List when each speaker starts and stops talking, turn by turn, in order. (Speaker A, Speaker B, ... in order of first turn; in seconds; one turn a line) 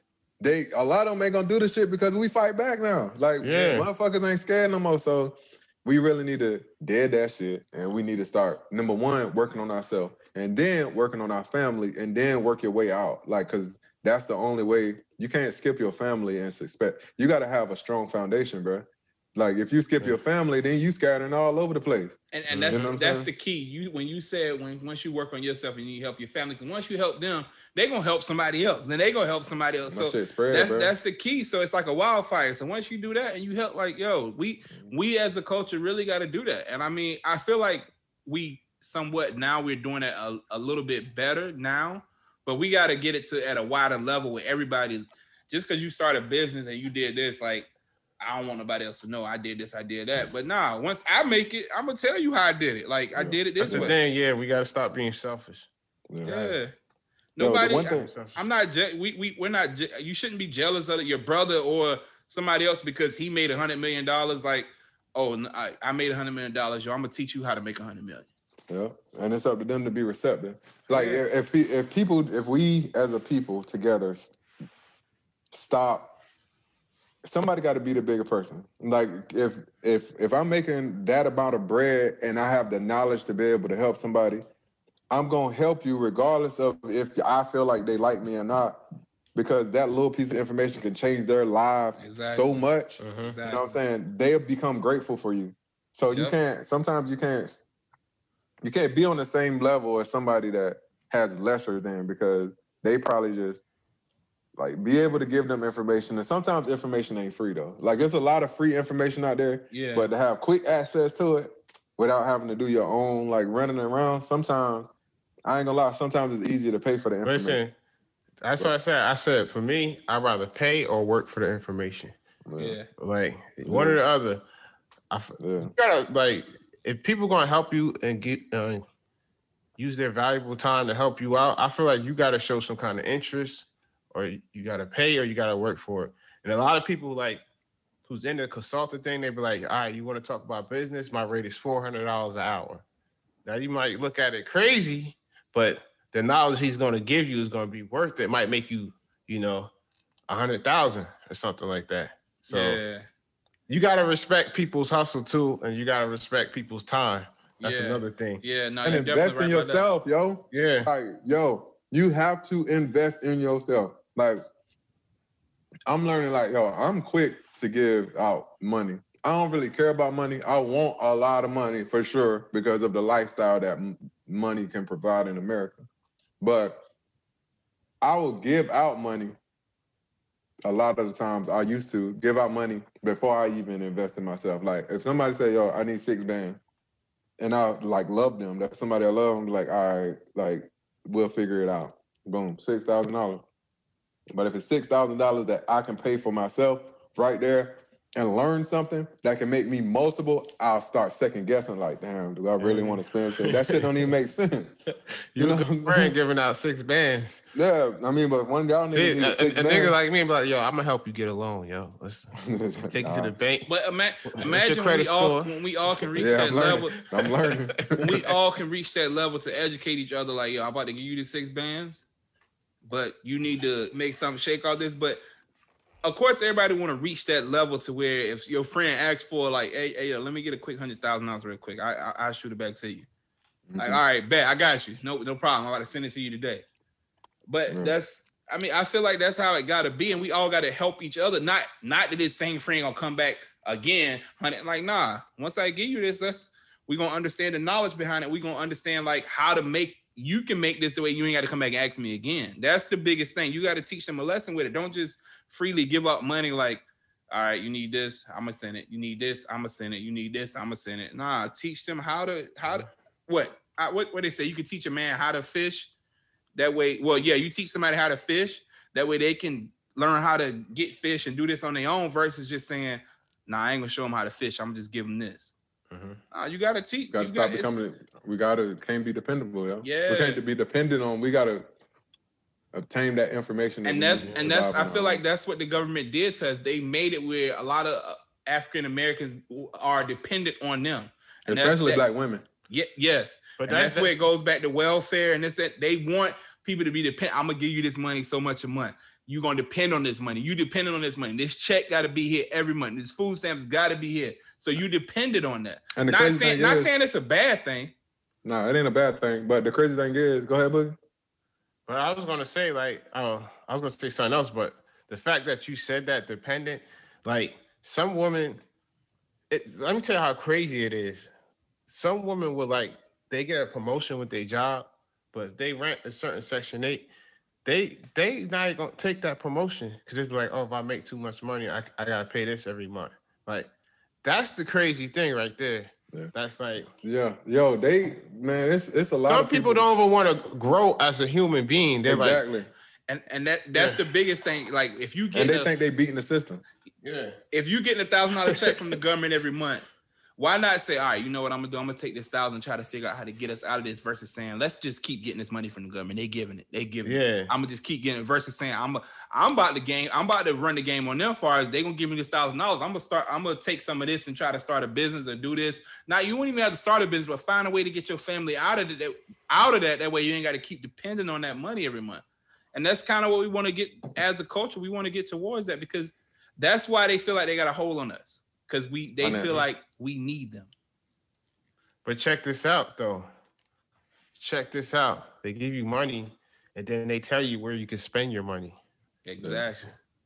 Speaker A: 0.4-23.3
Speaker B: 3.4-3.9
Speaker C: 22.3-47.7
Speaker B: 22.5-22.9
Speaker A: 29.9-30.9
Speaker C: 48.2-54.0
Speaker A: 53.1-53.9
Speaker B: 53.6-55.7
Speaker A: 56.1-56.6
Speaker C: 56.2-56.7
Speaker C: 57.4-68.3
Speaker A: 57.4-58.1
Speaker B: 58.0-58.4
Speaker A: 68.7-74.3
Speaker C: 70.9-71.2
Speaker A: 75.5-76.2
Speaker A: 77.2-84.4
Speaker A: 85.1-88.8
Speaker A: 89.3-97.7
Speaker C: 92.0-92.5
Speaker B: 93.0-93.3
Speaker C: 93.2-93.8
Speaker A: 98.6-103.6
Speaker A: 104.5-114.9
Speaker C: 109.7-110.1
Speaker A: 115.5-117.6
Speaker B: 117.2-117.7
Speaker B: 118.4-122.1
Speaker A: 122.5-122.8
Speaker C: 122.6-122.9
Speaker B: 123.0-124.4
Speaker A: 123.6-124.0
Speaker B: 125.1-128.8
Speaker A: 125.4-125.7
Speaker B: 129.8-137.4
Speaker B: 138.1-142.8
Speaker B: 143.4-149.7
Speaker B: 150.3-152.8
Speaker C: 152.5-153.1
Speaker B: 153.7-158.4
Speaker C: 157.6-159.8
Speaker A: 158.8-164.4
Speaker B: 160.5-160.9
Speaker A: 165.9-175.8
Speaker A: 176.4-176.8
Speaker A: 178.0-179.4
Speaker A: 180.6-186.6
Speaker A: 187.4-193.4
Speaker A: 194.3-204.8
Speaker B: 202.6-203.9
Speaker B: 205.3-207.4
Speaker A: 205.3-206.2
Speaker A: 207.5-209.9
Speaker B: 208.9-212.4
Speaker A: 212.4-213.3
Speaker B: 212.9-213.7
Speaker C: 213.7-217.0
Speaker B: 214.2-215.5
Speaker A: 216.1-218.2
Speaker B: 216.9-218.2
Speaker C: 217.9-222.0
Speaker C: 222.8-225.2
Speaker C: 226.0-233.1
Speaker A: 233.7-234.0
Speaker C: 233.8-236.6
Speaker C: 237.5-265.9
Speaker A: 237.7-238.0
Speaker C: 266.5-275.5
Speaker B: 275.9-276.2
Speaker C: 276.3-277.8
Speaker A: 277.1-281.7
Speaker C: 279.8-280.4
Speaker A: 282.7-285.2
Speaker C: 283.8-292.0
Speaker A: 291.5-292.4
Speaker C: 292.7-307.9
Speaker B: 293.6-294.1
Speaker A: 305.9-306.9
Speaker A: 308.4-311.0
Speaker B: 311.9-318.6
Speaker B: 319.5-321.3
Speaker B: 321.9-327.1
Speaker B: 327.6-333.7
Speaker B: 334.2-336.9
Speaker A: 337.0-339.9
Speaker B: 339.3-342.4
Speaker A: 342.1-342.7
Speaker C: 343.1-345.7
Speaker B: 343.7-344.0
Speaker A: 345.3-346.6
Speaker B: 347.0-347.4
Speaker C: 347.5-349.8
Speaker B: 348.5-348.8
Speaker C: 350.4-380.7
Speaker B: 357.0-357.5
Speaker A: 379.2-379.7
Speaker B: 382.0-383.3
Speaker B: 384.4-388.8
Speaker C: 389.2-389.9
Speaker A: 389.4-389.6